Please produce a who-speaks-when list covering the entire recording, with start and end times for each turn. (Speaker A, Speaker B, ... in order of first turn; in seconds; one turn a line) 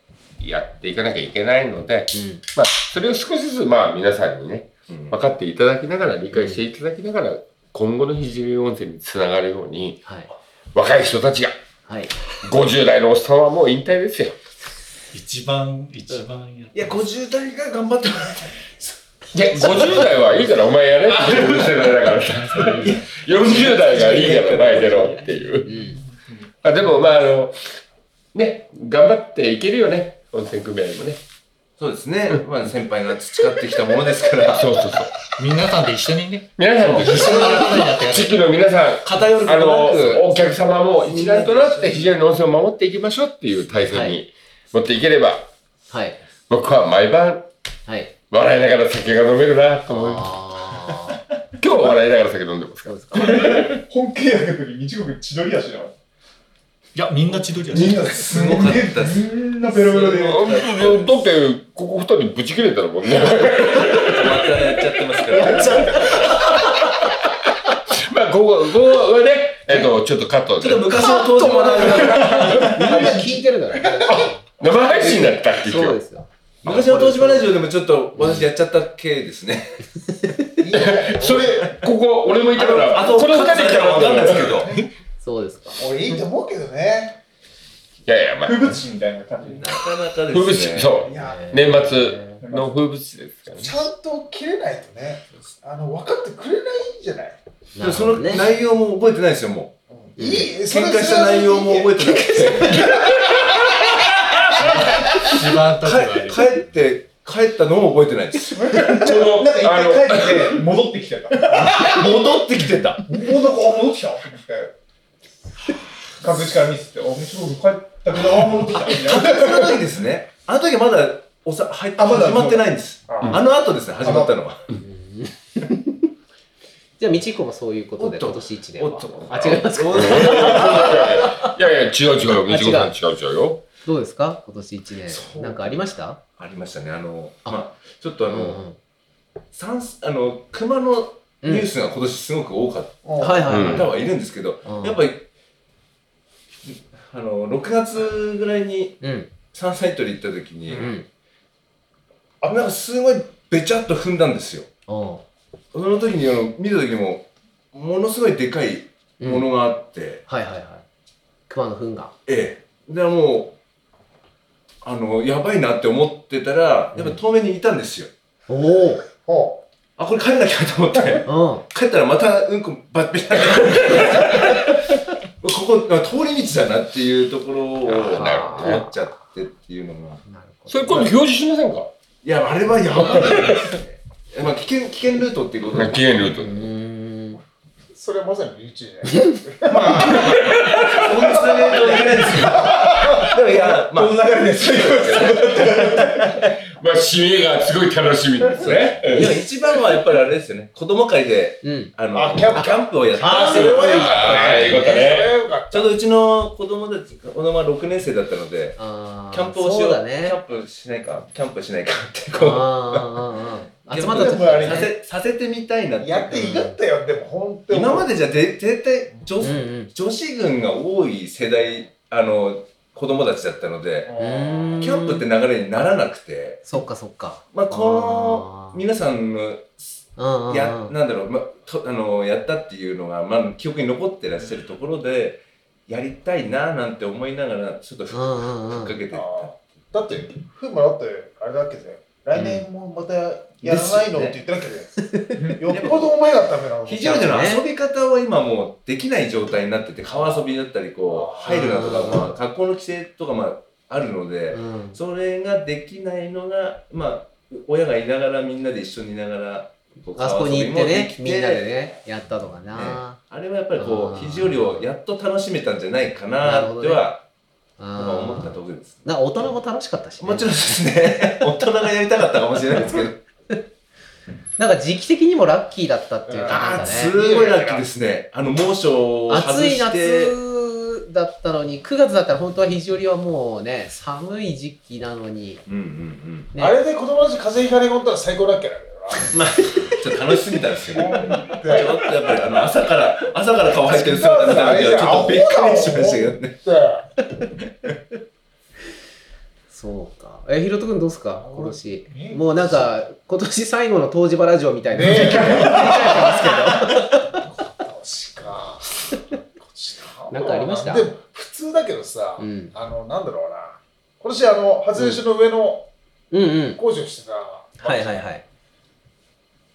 Speaker A: 0.4-10.0
Speaker B: 2.1-2.4
Speaker C: 4.9-5.2
Speaker B: 6.3-6.6
Speaker A: 10.7-11.6
Speaker B: 11.9-12.1
Speaker A: 12.4-14.4
Speaker D: 15.1-16.9
Speaker C: 16.7-18.9
Speaker A: 19.3-25.7
Speaker C: 19.6-20.0
Speaker C: 21.2-21.8
Speaker C: 22.6-25.2
Speaker D: 25.6-26.4
Speaker B: 25.7-26.0
Speaker A: 26.6-27.6
Speaker A: 28.3-31.2
Speaker C: 31.8-34.8
Speaker A: 34.4-35.1
Speaker D: 35.3-38.4
Speaker A: 36.6-45.5
Speaker C: 36.8-37.6
Speaker C: 39.0-42.1
Speaker B: 43.9-44.2
Speaker B: 45.9-46.2
Speaker A: 46.5-47.5
Speaker B: 47.9-48.1
Speaker A: 48.3-50.3
Speaker B: 49.9-51.2
Speaker A: 51.6-53.5
Speaker B: 52.8-53.4
Speaker E: 53.1-55.9
Speaker D: 56.9-58.1
Speaker E: 57.7-60.5
Speaker C: 57.7-61.1
Speaker A: 60.2-67.3
Speaker C: 63.8-66.7
Speaker A: 67.9-71.1
Speaker C: 70.6-73.3
Speaker B: 71.0-74.4
Speaker E: 72.8-73.3
Speaker A: 74.1-76.0
Speaker B: 75.1-77.5
Speaker C: 76.6-79.8
Speaker B: 78.2-78.5
Speaker B: 80.2-80.5
Speaker F: 80.6-81.7
Speaker A: 80.7-84.7
Speaker C: 82.5-84.9
Speaker B: 85.2-86.2
Speaker F: 85.8-87.2
Speaker A: 88.0-88.8
Speaker E: 88.4-89.8
Speaker C: 89.6-91.0
Speaker A: 90.3-93.7
Speaker F: 91.0-91.5
Speaker B: 91.1-92.4
Speaker E: 92.4-92.8
Speaker F: 93.6-97.4
Speaker B: 97.8-98.4
Speaker C: 97.8-99.8
Speaker F: 99.9-102.9
Speaker B: 100.2-100.5
Speaker C: 100.6-103.0
Speaker A: 103.2-104.4
Speaker D: 104.6-106.6
Speaker C: 104.7-108.9
Speaker E: 108.5-112.4
Speaker A: 108.8-110.6
Speaker C: 111.5-113.2
Speaker E: 113.0-114.7
Speaker E: 116.2-119.8
Speaker C: 118.7-124.7
Speaker E: 122.0-124.4
Speaker B: 124.8-126.0
Speaker B: 127.0-131.5
Speaker C: 128.0-131.2
Speaker A: 129.9-133.6
Speaker B: 132.4-132.9
Speaker B: 133.8-136.2
Speaker C: 135.1-135.8
Speaker C: 136.3-138.6
Speaker B: 138.2-138.8
Speaker C: 139.5-145.3
Speaker B: 141.4-141.7
Speaker F: 143.0-143.7
Speaker B: 143.2-144.0
Speaker A: 143.5-143.9
Speaker B: 144.6-145.0
Speaker C: 146.7-151.0
Speaker B: 149.0-149.3
Speaker B: 150.7-151.1
Speaker C: 152.4-154.7
Speaker B: 154.9-155.2
Speaker C: 155.7-160.2
Speaker B: 159.2-159.5
Speaker B: 160.3-160.8
Speaker B: 161.5-162.1
Speaker C: 162.2-163.6
Speaker C: 164.8-168.1
Speaker B: 166.9-167.2
Speaker B: 168.5-169.0
Speaker F: 169.2-169.6
Speaker C: 170.0-174.9
Speaker B: 171.2-171.6
Speaker C: 175.4-180.2
Speaker B: 177.9-178.9
Speaker A: 177.9-178.8
Speaker B: 180.2-181.1
Speaker A: 180.7-181.9
Speaker C: 182.2-186.0
Speaker A: 182.9-183.7
Speaker A: 185.7-186.6
Speaker B: 186.4-187.4
Speaker F: 187.9-190.4
Speaker E: 189.7-190.2
Speaker A: 190.1-191.2
Speaker C: 190.9-196.1
Speaker E: 191.2-196.4
Speaker F: 191.3-192.7
Speaker A: 196.7-199.4
Speaker C: 198.6-204.8
Speaker E: 198.7-198.9
Speaker B: 201.6-201.9
Speaker F: 202.1-205.9
Speaker B: 202.5-205.1
Speaker A: 203.9-205.3
Speaker C: 205.7-208.8
Speaker B: 208.8-210.4
Speaker C: 209.3-213.2
Speaker B: 212.3-214.9
Speaker C: 213.9-216.6
Speaker F: 214.1-214.9
Speaker F: 216.0-218.1
Speaker B: 216.3-216.7
Speaker C: 217.7-224.1
Speaker F: 219.2-219.4
Speaker B: 219.4-219.9
Speaker F: 224.0-224.8
Speaker B: 224.2-225.2
Speaker C: 224.8-226.8
Speaker B: 226.7-228.8
Speaker C: 227.5-239.5
Speaker B: 230.2-230.9
Speaker B: 238.1-238.9
Speaker F: 239.1-247.2
Speaker B: 242.3-242.7
Speaker C: 243.6-244.4
Speaker B: 245.0-245.3
Speaker C: 245.7-246.2
Speaker C: 246.8-261.7
Speaker B: 246.9-247.6
Speaker F: 250.1-250.5
Speaker F: 251.0-251.8
Speaker B: 251.4-252.3
Speaker B: 254.5-255.0
Speaker B: 260.2-263.2
Speaker C: 262.7-267.2
Speaker B: 263.7-264.8
Speaker B: 266.4-267.1
Speaker B: 267.8-270.9
Speaker C: 267.9-269.1
Speaker C: 270.2-273.2
Speaker B: 274.6-277.1
Speaker F: 276.3-277.9
Speaker C: 276.4-280.4
Speaker B: 279.3-285.6
Speaker C: 285.7-286.5
Speaker F: 286.6-289.3
Speaker C: 289.3-296.6
Speaker F: 290.8-292.2
Speaker F: 293.9-297.1
Speaker B: 299.7-307.3
Speaker F: 301.4-302.9
Speaker F: 304.9-306.5
Speaker E: 305.0-306.2
Speaker F: 307.3-315.9
Speaker B: 310.3-311.1
Speaker B: 312.4-312.7
Speaker B: 314.9-315.2
Speaker B: 316.3-316.8
Speaker F: 316.8-318.3
Speaker B: 317.8-318.4